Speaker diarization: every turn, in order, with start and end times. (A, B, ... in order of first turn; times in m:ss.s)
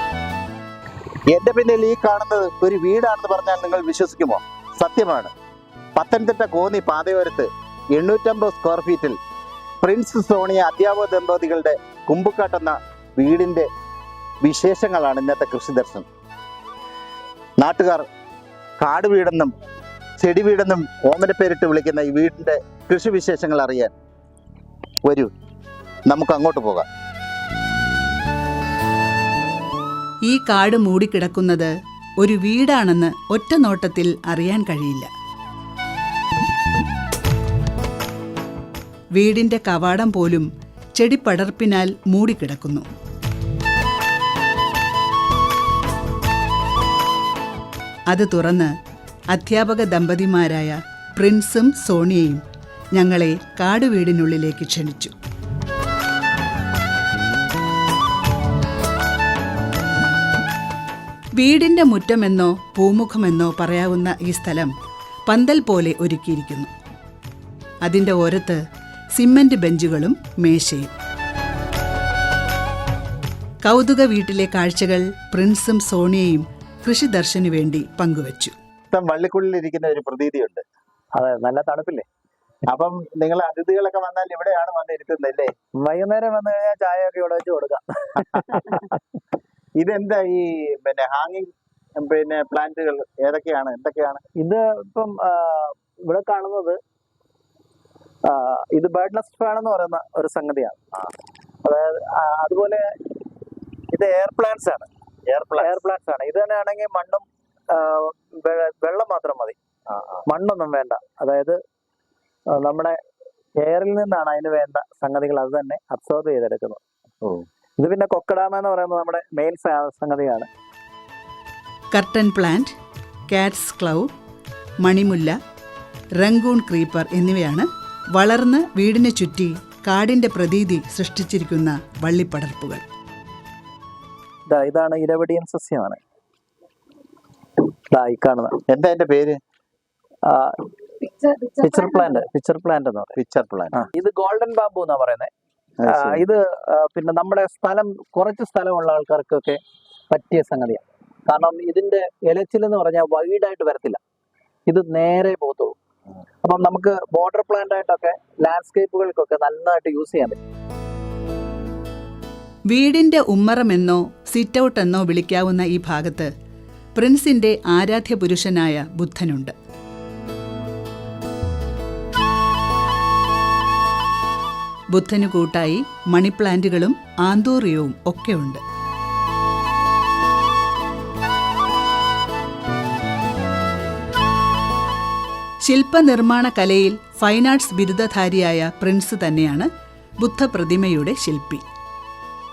0:01.3-0:05.3 A
0:06.0-0:09.2 A
0:09.8-0:13.7 A
0:14.4-0:16.1 A
0:17.6-0:18.1 A
0:18.8-0:19.5 A
0:20.2-0:23.9 A
0:25.0-0:25.3 A
0:26.1-0:26.9 A
0:30.3-0:35.1 B
0:39.2-0:42.9 B
0:48.1-0:48.7 B
0:49.3-0:52.4 B
0:53.0-0:55.2 B
1:01.4-1:04.7 B
1:05.3-1:06.7 B
1:07.8-1:08.6 B
1:09.2-1:10.9 B
1:13.6-1:18.6 B
1:18.9-1:20.6 A
1:21.1-1:22.0 C
1:22.7-1:25.5 A
1:25.8-1:28.9 C
1:28.2-1:28.7 A
1:29.8-1:34.2 A
1:34.4-1:36.8 C
1:38.2-1:40.8 C
1:41.6-1:42.9 C
1:43.9-1:44.9 C
1:45.3-1:45.8 A
1:45.5-1:49.6 C
1:49.9-1:50.2 A
1:50.3-1:51.6 C
1:52.5-1:53.0 C
1:53.6-1:56.8 C
1:57.8-2:00.5 C
2:01.9-2:02.7 B
2:03.3-2:04.1 B
2:04.8-2:05.4 B
2:06.2-2:12.8 B
2:14.5-2:16.0 C
2:17.9-2:18.6 C
2:18.7-2:19.4 A
2:20.2-2:20.7 C
2:21.3-2:23.2 C
2:23.2-2:23.9 A
2:23.8-2:25.3 C
2:25.8-2:26.2 A
2:25.8-2:34.0 C
2:34.7-2:35.8 C
2:36.4-2:40.4 C
2:42.7-2:46.3 B
2:46.9-2:49.5 B
2:54.9-2:58.6 B
3:05.6-3:11.7 B